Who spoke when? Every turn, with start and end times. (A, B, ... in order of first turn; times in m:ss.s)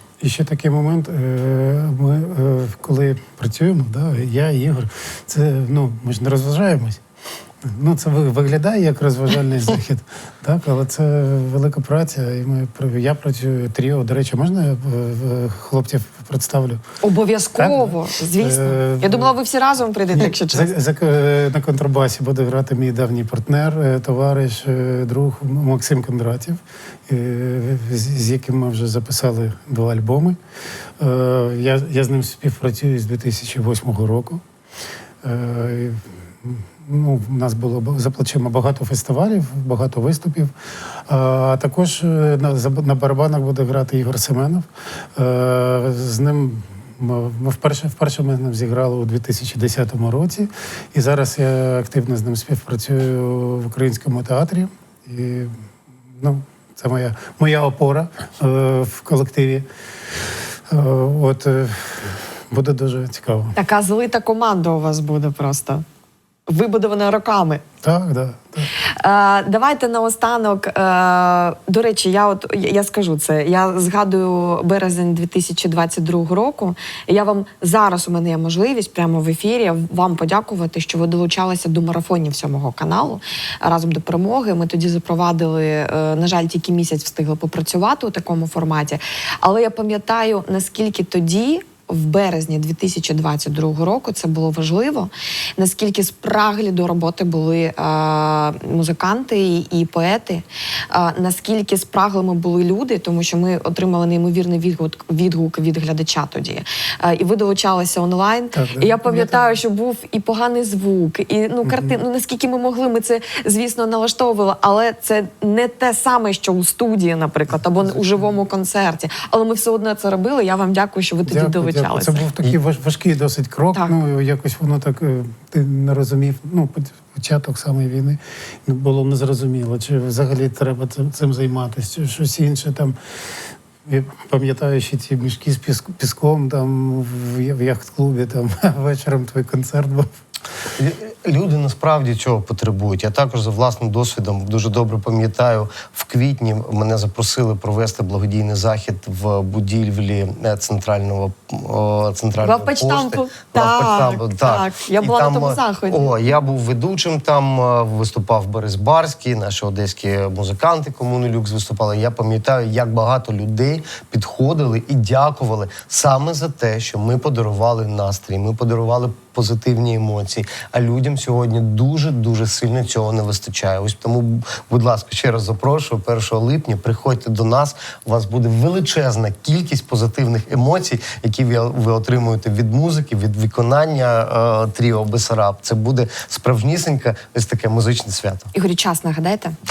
0:00.2-0:07.0 A
0:07.6-0:16.8 A
0:17.0-0:20.7 B
0:17.6-0:19.3 A
0:20.1-0:30.4 A
0:31.0-0:34.4 A
0:35.2-0:55.6 A
0:56.2-0:59.7 A
1:00.7-1:03.6 A
1:03.6-1:05.8 B
1:06.5-1:07.6 B
1:07.8-1:08.7 A
1:08.8-2:02.3 B
1:48.5-1:49.5 A
1:51.6-1:52.0 A
2:01.3-2:13.0 A
2:13.9-2:20.1 A
2:20.8-3:08.5 C
2:32.4-2:36.1 B
3:08.5-3:09.6 B